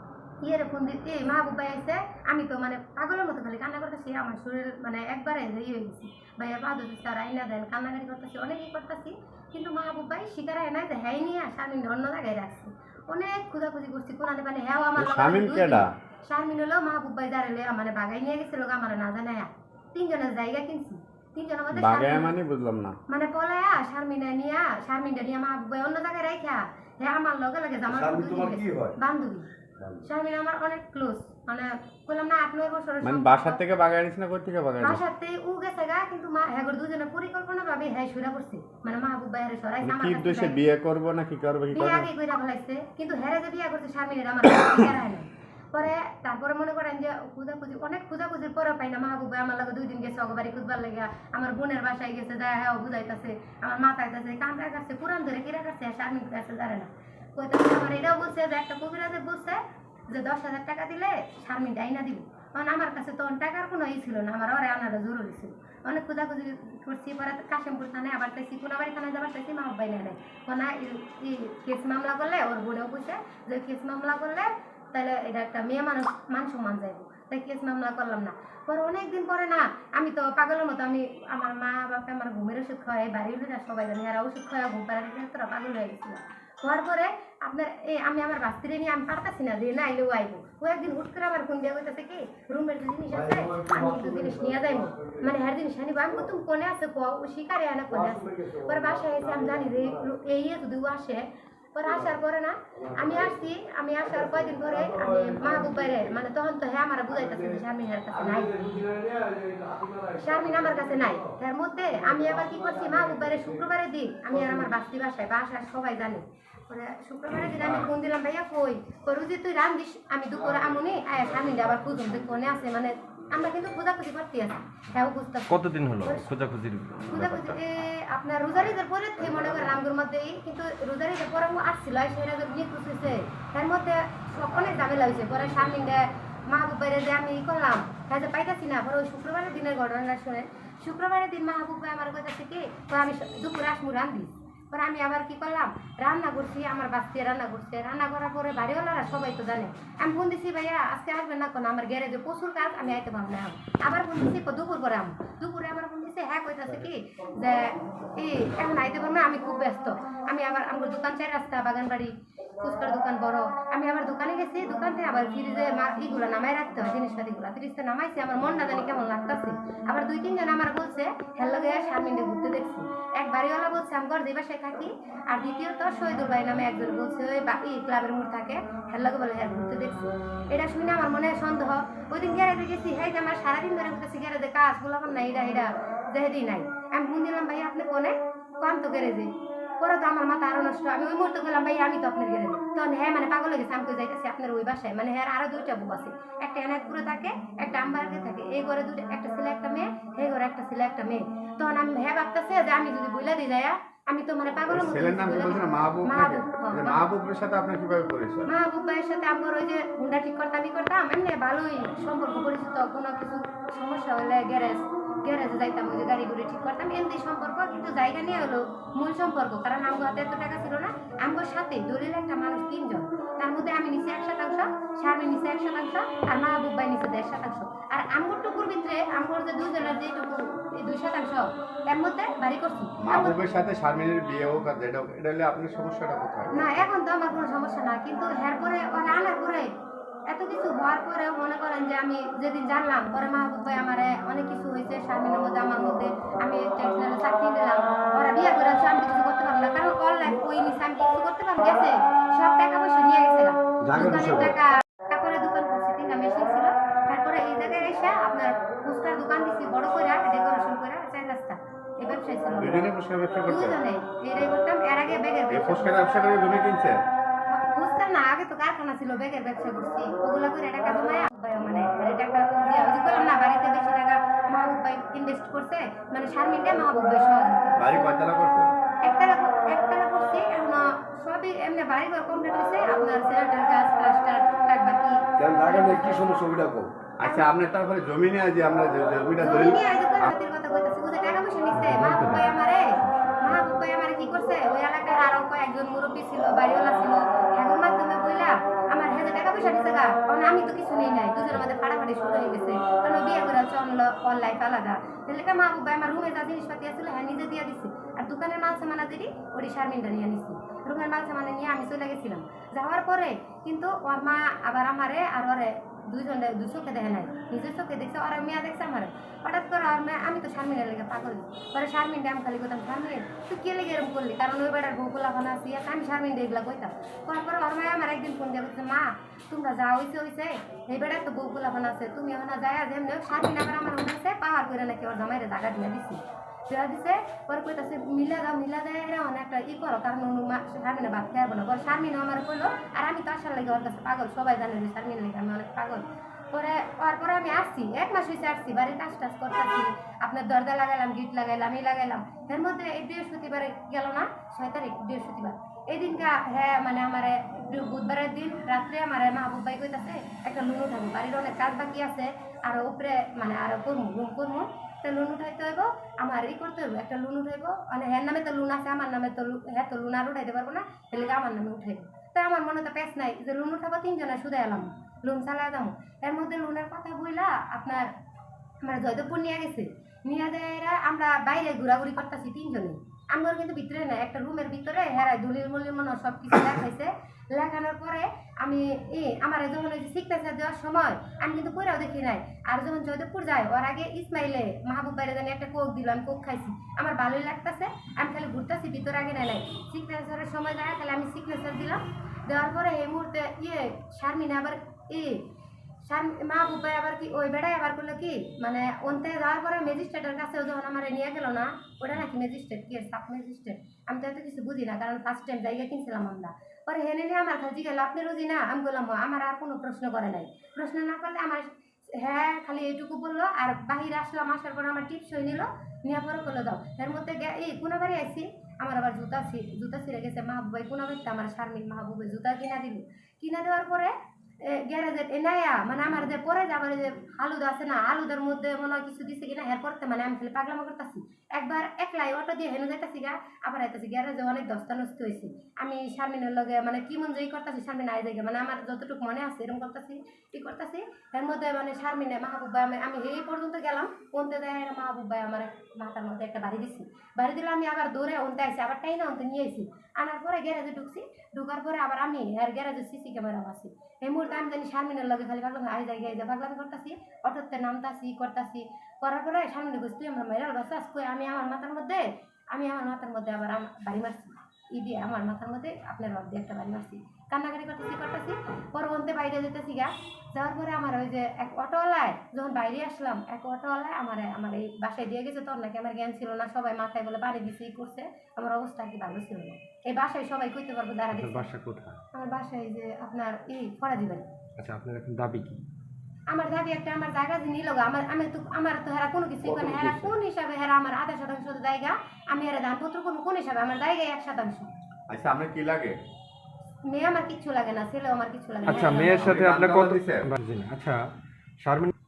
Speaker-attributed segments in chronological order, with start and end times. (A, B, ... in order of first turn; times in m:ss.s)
0:00.4-0:22.4 A
0:15.0-0:15.9 B
0:21.7-0:23.0 B
0:23.1-0:29.5 A
0:27.9-0:28.9 C
0:29.8-0:30.0 C
0:30.0-0:33.6 A
0:33.0-0:35.0 B
0:34.8-0:40.6 A
0:39.8-0:42.1 B
0:41.7-1:48.7 A
1:33.1-1:35.3 C
1:37.9-1:40.1 C
1:42.8-1:43.4 C
1:44.0-1:46.2 C
1:47.1-1:53.6 C
1:50.2-2:06.3 A
1:54.3-1:54.7 C
2:01.4-2:02.2 C
2:05.5-2:07.8 D
2:07.1-3:27.0 A
2:09.3-2:09.7 B
3:24.7-3:28.5 B
3:28.4-3:53.4 A
3:53.0-3:56.8 B
3:56.5-3:59.7 A
4:00.3-4:22.8 A
4:13.8-4:14.5 C
4:22.6-4:23.8 B
4:23.5-4:26.0 A
4:25.5-4:27.0 B
4:27.5-4:38.0 A
4:37.8-4:38.7 B
4:39.0-4:46.4 A
4:45.4-4:46.9 C
4:47.2-4:50.3 B
4:47.2-4:47.5 A
4:49.4-6:18.1 A
4:51.7-4:53.7 D
6:18.8-6:45.5 A
6:46.0-8:11.6 A
8:11.3-8:12.2 D
8:12.3-8:14.5 A
8:14.8-8:15.8 D
8:16.5-8:24.9 A
8:19.6-8:20.3 C
8:25.3-8:26.2 B
8:27.0-8:29.5 A
8:28.8-8:31.2 D
8:29.3-8:30.5 B
8:31.8-8:32.1 D